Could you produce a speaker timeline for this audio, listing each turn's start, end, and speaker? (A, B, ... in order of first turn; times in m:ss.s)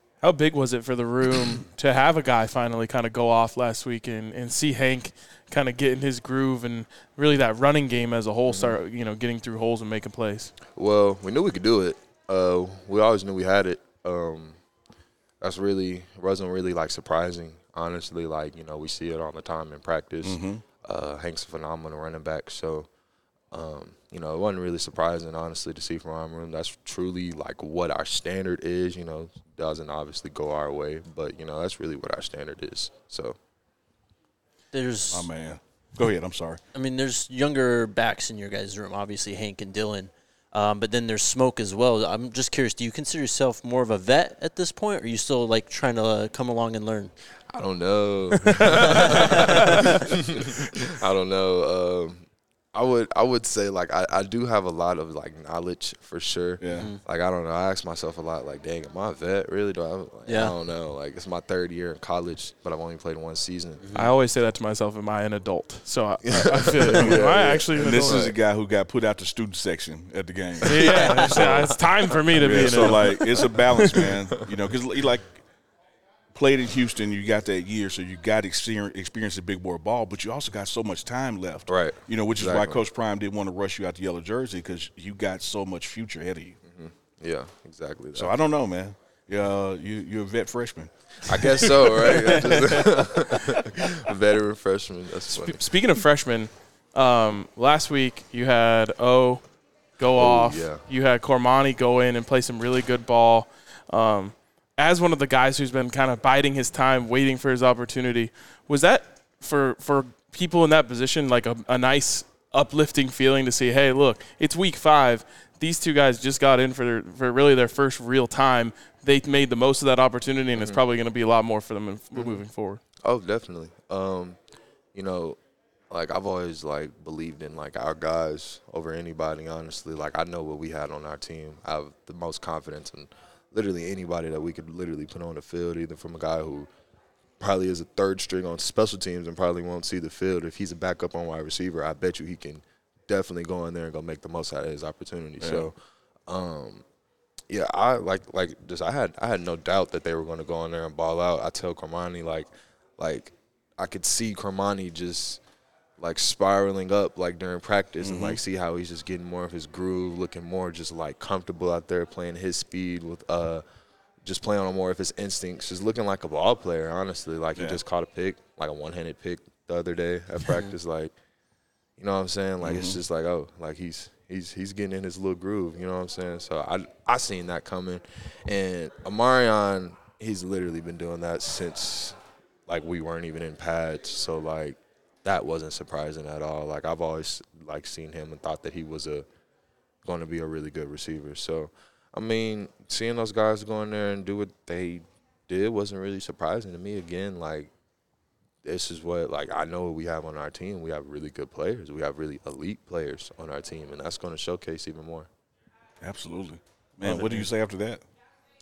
0:00.2-0:10.5 A
0:08.5-0:08.8 B
0:10.7-0:14.6 B
0:15.4-0:22.9 B
0:20.2-0:20.6 C
0:23.5-0:33.4 B
0:34.7-0:35.3 D
0:35.1-0:36.6 C
0:36.7-0:47.1 D
0:47.5-1:03.8 B
0:48.9-0:49.7 D
0:56.6-0:56.9 C
0:56.7-0:57.0 D
1:00.3-1:00.6 D
1:03.8-1:04.1 D
1:04.0-1:08.3 A
1:06.3-1:08.4 B
1:06.9-1:11.8 C
1:10.6-1:14.1 A
1:11.3-1:11.8 B
1:12.3-1:15.4 C
1:12.5-1:12.8 B
1:16.3-1:26.6 C
1:21.7-1:22.8 B
1:26.6-1:28.4 B
1:28.1-1:32.4 C
1:31.3-1:35.6 B
1:35.3-1:39.4 A
1:40.0-2:02.8 A
1:40.2-1:40.8 B
2:03.0-2:04.4 B
2:04.9-2:05.4 B
2:05.9-2:16.7 B
2:17.4-2:25.7 B
2:25.4-2:25.7 C
2:26.3-2:26.8 B
2:27.5-2:35.4 B
2:36.0-2:43.6 B
2:38.0-2:38.4 C
2:44.2-2:51.1 B
2:47.6-2:47.8 C
2:52.0-3:09.3 B
2:52.6-2:53.0 C
3:10.0-3:17.7 B
3:18.6-3:25.3 B
3:26.0-3:28.0 C
3:27.0-3:27.5 D